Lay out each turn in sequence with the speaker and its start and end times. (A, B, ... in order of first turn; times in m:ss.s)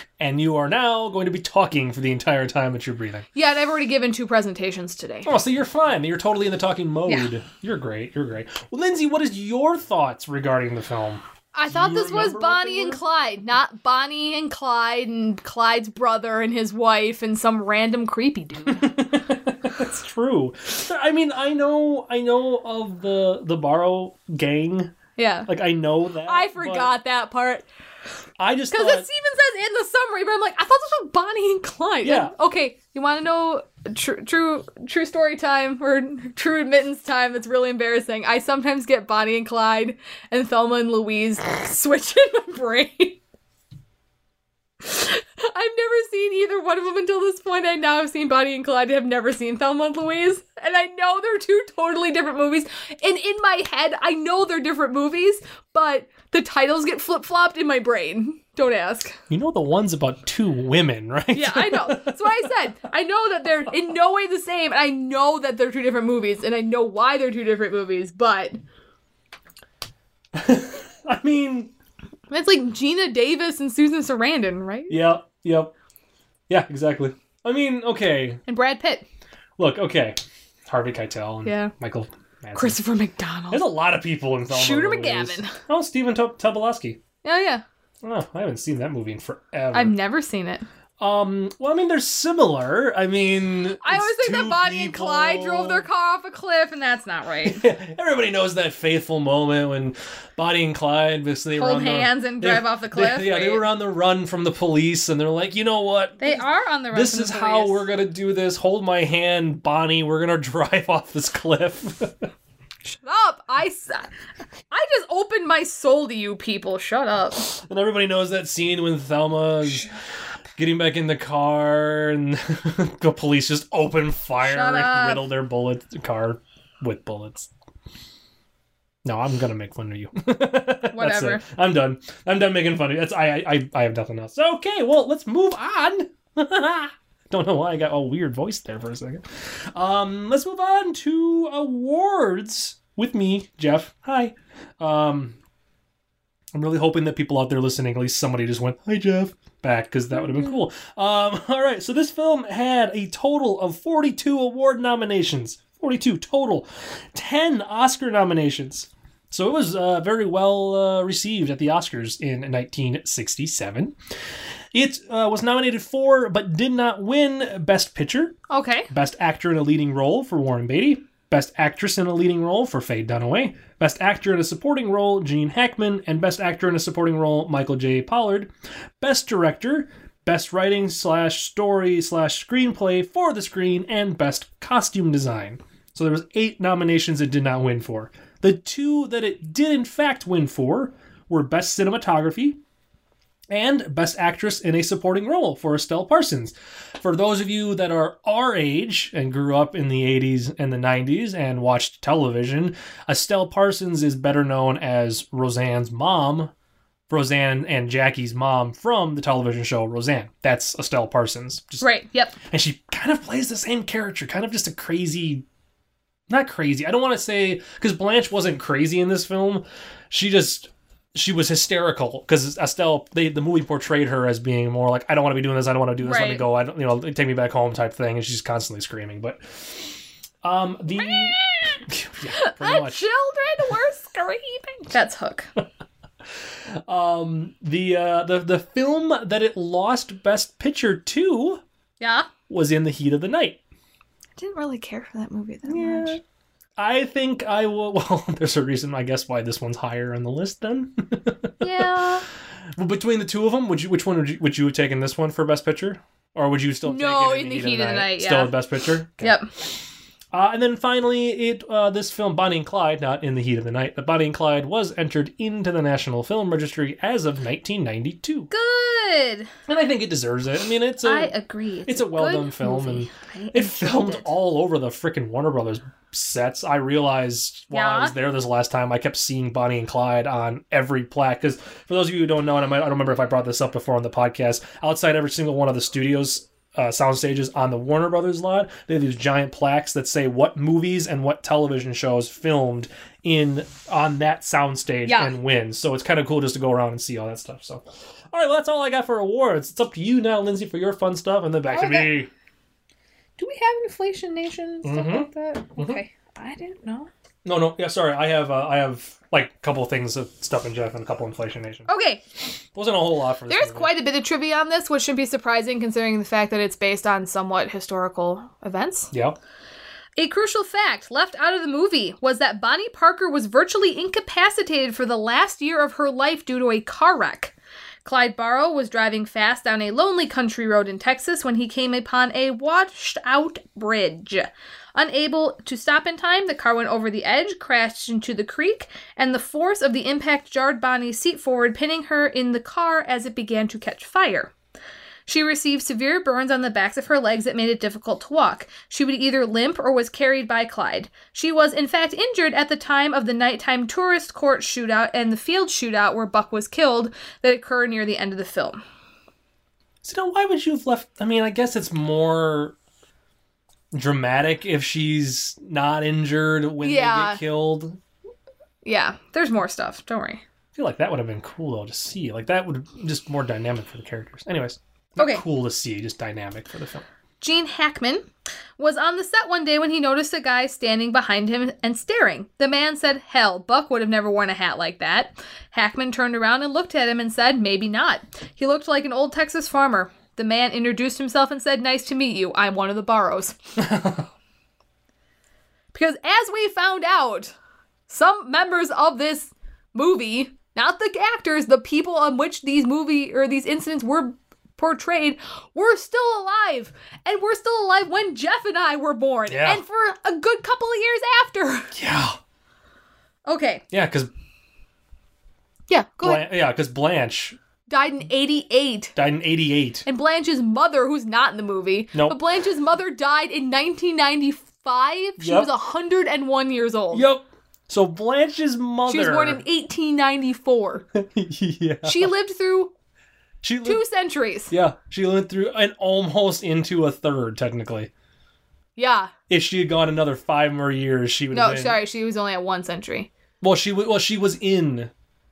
0:00.2-0:03.2 A
0:03.3-0:05.3 B
0:05.2-0:13.0 A
0:11.5-0:19.0 B
0:18.7-0:24.9 A
0:25.2-0:25.5 B
0:25.4-0:26.9 A
0:26.2-0:27.6 B
0:28.4-0:29.0 A
0:28.7-0:43.2 B
0:32.0-0:32.3 A
0:44.8-0:59.2 B
0:59.3-1:02.5 A
1:01.3-1:08.6 B
1:10.3-1:11.7 A
1:12.3-1:15.0 B
1:14.9-1:15.7 A
1:16.5-1:18.4 A
1:18.5-1:19.0 B
1:19.6-1:22.8 A
1:21.4-1:21.7 B
1:22.5-1:23.6 B
1:23.5-1:27.0 A
1:24.5-1:25.6 B
1:27.2-1:27.6 B
1:28.0-1:29.9 A
1:29.7-1:30.6 B
1:31.0-1:35.8 A
1:33.8-1:37.6 B
1:37.4-1:52.3 A
1:41.6-1:43.6 B
1:46.2-1:47.8 B
1:52.8-1:54.1 B
1:54.7-1:57.5 B
1:57.5-1:59.9 A
2:00.6-2:07.5 A
2:04.4-2:05.3 B
2:09.0-2:25.4 A
2:10.9-2:11.4 B
2:26.5-2:44.0 A
2:44.7-2:48.4 A
2:48.5-2:48.9 B
2:48.9-3:12.6 A
3:13.5-3:26.5 A
3:27.1-3:31.8 A
3:31.8-3:32.4 B
3:32.4-3:35.4 A
3:36.3-3:53.0 A
3:46.0-3:46.4 B
3:51.0-3:51.8 B
3:52.3-3:55.5 B
3:56.7-4:01.6 A
4:02.0-4:02.3 B
4:02.5-4:03.6 A
4:04.4-4:06.2 B
4:05.6-4:06.2 A
4:06.8-4:11.8 A
4:11.6-4:12.2 B
4:12.8-4:19.4 A
4:16.8-4:18.6 B
4:19.2-4:19.5 B
4:20.3-4:28.5 A
4:28.5-4:29.5 B
4:29.7-4:31.3 A
4:31.0-4:34.3 B
4:31.9-5:02.3 A
4:37.7-4:38.1 B
4:55.0-4:55.3 B
5:01.7-5:02.1 B
5:03.4-5:07.1 B
5:04.8-5:06.0 A
5:07.4-5:11.9 A
5:11.9-5:12.2 B
5:12.7-5:13.9 A
5:13.5-5:19.1 B
5:19.1-5:19.4 A
5:20.2-5:27.5 B
5:28.0-5:44.5 B
5:45.3-5:58.8 B
6:00.0-6:02.8 A
6:03.9-6:08.0 A
6:06.8-6:07.4 B
6:08.8-6:10.4 B
6:10.8-6:17.0 A
6:15.2-6:15.4 B
6:17.4-6:18.3 B
6:18.8-6:33.6 B
6:33.8-6:34.3 A
6:35.9-6:37.5 B
6:38.1-6:51.9 B
6:49.5-6:49.8 A
6:51.9-6:52.4 A
6:53.4-6:53.8 B
6:53.9-6:54.3 A
6:55.9-6:56.5 B
6:56.2-6:57.6 A
6:57.9-6:59.1 B
6:59.2-7:00.0 A
7:00.0-7:07.2 B
7:02.1-7:02.4 A
7:05.4-7:05.7 A
7:07.1-7:09.6 A
7:09.1-7:11.0 B
7:11.1-7:12.3 A
7:12.0-7:12.9 B
7:13.6-7:14.0 A
7:13.8-7:14.7 B
7:14.7-7:18.1 A
7:19.0-7:19.3 B
7:19.5-7:22.0 A
7:21.5-7:23.3 B
7:23.6-7:25.1 A